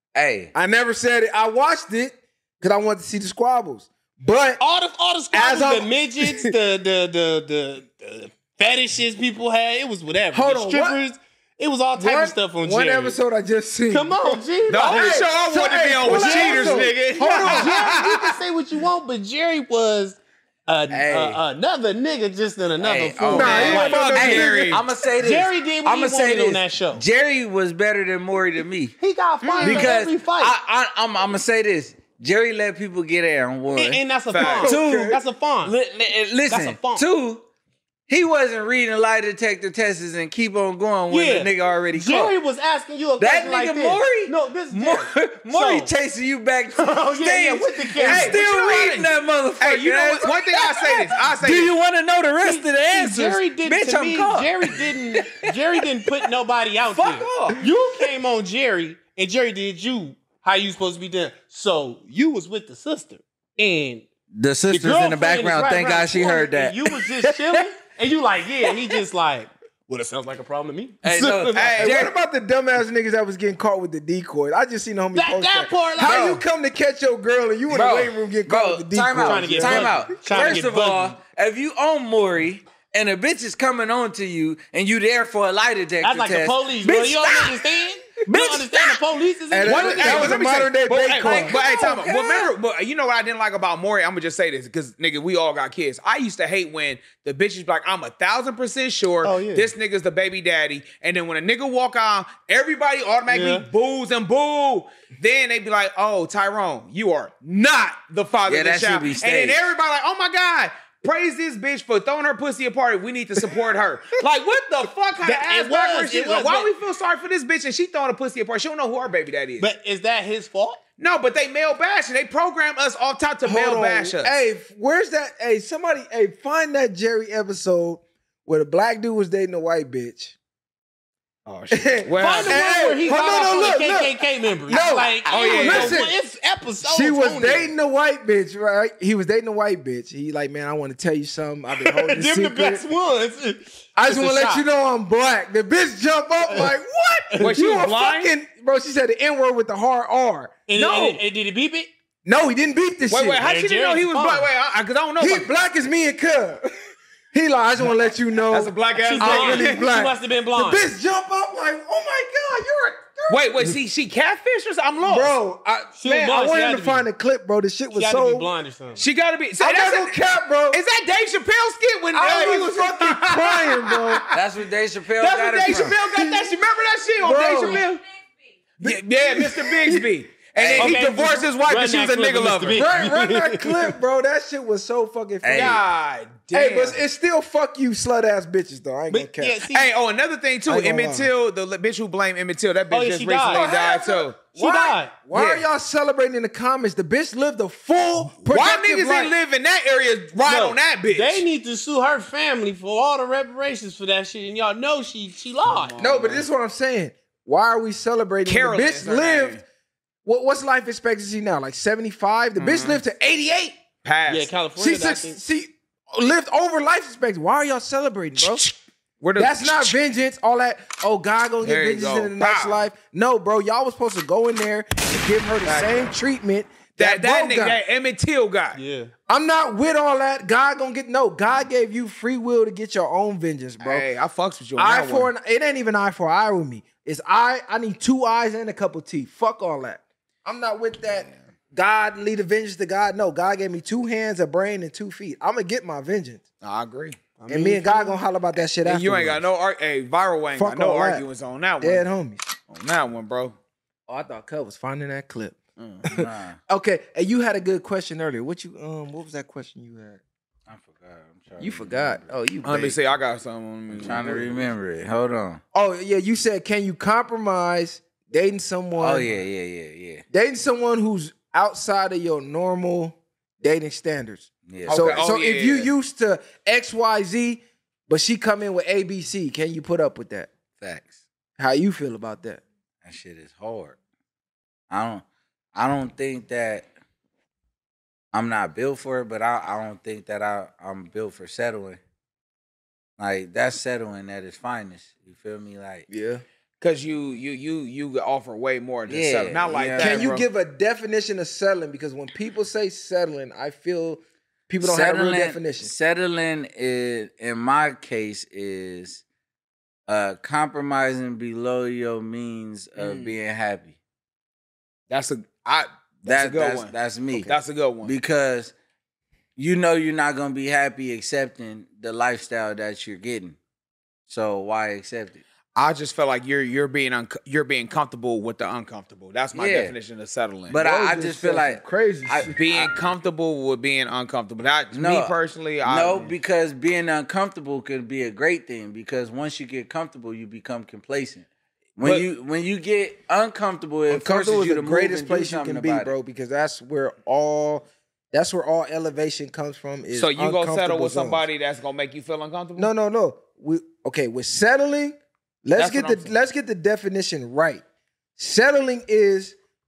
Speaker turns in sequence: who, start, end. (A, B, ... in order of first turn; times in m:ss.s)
0:00.2-0:00.5 A
0:00.5-0:04.6 B
0:04.6-0:13.2 C
0:05.3-0:06.5 B
0:10.3-0:11.0 B
0:11.9-0:14.2 B
0:13.9-0:15.2 C
0:14.7-0:18.4 D
0:14.7-0:18.0 B
0:16.0-0:24.4 C
0:20.9-0:21.4 A
0:22.8-0:29.0 A
0:23.3-0:24.8 D
0:23.3-0:24.8 B
0:25.2-0:27.0 C
0:29.0-0:30.6 C
0:29.4-0:30.0 D
0:29.6-0:37.4 A
0:33.8-0:35.7 C
0:34.3-0:34.7 D
0:34.6-0:35.2 B
0:36.5-0:37.0 C
0:38.1-0:42.4 A
0:41.1-0:45.9 C
0:43.2-0:55.5 A
0:46.8-0:48.4 C
0:48.0-0:51.7 D
0:52.4-1:04.1 C
0:56.9-0:57.6 A
1:04.3-1:06.8 A
1:04.7-1:11.8 C
1:11.0-1:12.1 A
1:11.5-1:12.1 D
1:11.8-1:20.0 B
1:15.1-1:16.4 C
1:17.7-1:27.6 A
1:19.2-1:21.2 C
1:26.0-1:30.4 C
1:28.4-1:28.7 B
1:29.5-1:31.6 B
1:29.6-1:59.7 D
1:31.2-1:32.5 A
1:39.2-1:39.7 C
1:43.3-1:43.7 C
1:48.5-1:49.6 A
1:55.2-1:56.7 C
1:59.6-2:00.8 C
2:01.0-2:04.3 D
2:03.4-2:10.4 B
2:11.5-2:13.5 D
2:11.7-2:16.2 B
2:12.1-2:17.7 C
2:15.3-2:16.0 D
2:16.8-2:22.8 B
2:21.7-2:24.6 C
2:24.0-2:31.2 B
2:27.4-2:28.3 D
2:30.7-2:31.9 C
2:32.2-2:33.4 B
2:33.1-2:35.5 D
2:33.4-2:34.5 C
2:35.2-2:36.7 B
2:37.3-2:43.8 B
2:38.5-2:39.9 D
2:39.0-2:40.9 C
2:43.3-2:45.4 D
2:45.0-2:48.5 B
2:46.0-2:47.1 C
2:47.9-2:49.0 C
2:49.0-2:50.2 D
2:49.6-2:50.8 B
2:50.7-2:54.3 D
2:52.1-2:54.2 B
2:54.3-2:56.0 A
2:55.2-2:58.0 D
2:55.7-2:56.5 B
2:57.2-2:57.8 B
2:58.8-3:02.9 D
2:58.8-3:00.0 B
3:00.6-3:01.0 A
3:00.8-3:04.0 C
3:02.7-3:05.8 B
3:05.4-3:05.8 A
3:05.5-3:07.0 D
3:06.5-3:09.6 B
3:09.1-3:09.9 C
3:09.7-3:14.5 D
3:10.7-3:11.3 B
3:12.9-3:13.7 C
3:13.5-3:19.3 B
3:14.5-3:15.2 C
3:15.3-3:15.6 D
3:18.4-3:21.4 D
3:20.5-3:26.2 C
3:25.6-3:26.4 D
3:26.0-3:29.6 B
3:28.5-3:29.6 D
3:30.2-3:33.8 B
3:32.6-3:33.0 D
3:34.0-3:34.6 D
3:34.3-3:35.4 C
3:34.8-3:38.6 B
3:38.4-3:40.0 D
3:39.4-3:47.8 B
3:41.6-3:42.9 D
3:45.6-3:46.1 D
3:47.0-3:48.8 D
3:48.8-3:49.1 C
3:49.3-3:54.0 B
3:53.8-3:55.3 D
3:54.8-4:06.4 B
4:06.6-4:07.2 D
4:07.4-4:08.2 C
4:07.5-4:09.4 B
4:08.8-4:12.0 D
4:10.6-4:11.2 B
4:11.8-4:12.4 B
4:12.7-4:13.6 D
4:14.1-4:15.6 B
4:15.8-4:16.6 A
4:16.1-4:20.2 B
4:20.7-4:22.3 A
4:21.6-4:23.0 B
4:22.6-4:24.7 D
4:23.9-4:25.6 A
4:25.7-4:29.3 B
4:29.0-4:30.2 A
4:30.3-4:40.5 B
4:34.7-4:35.2 A
4:34.9-4:35.9 D
4:40.8-4:41.2 A
4:41.6-4:42.6 B
4:43.0-4:44.0 A
4:44.9-4:46.9 A
4:48.3-4:52.0 A
4:53.2-4:56.1 A
4:56.1-4:56.4 B
4:56.8-5:00.4 D
4:59.1-5:00.3 A
5:00.0-5:05.9 B
5:04.8-5:09.2 A
5:10.1-5:14.0 A
5:13.0-5:13.4 D
5:15.1-5:18.1 D
5:16.3-5:18.7 A
5:19.6-5:23.6 A
5:24.3-5:25.4 A
5:25.8-5:30.8 D
5:29.5-5:29.9 A
5:30.7-5:32.9 A
5:30.7-5:32.6 B
5:32.6-5:36.3 D
5:34.9-5:46.2 A
5:42.0-5:42.3 D
5:44.1-5:51.4 B
5:50.1-5:52.9 D
5:52.8-5:57.8 B
5:55.8-5:56.3 D
5:58.4-5:59.6 B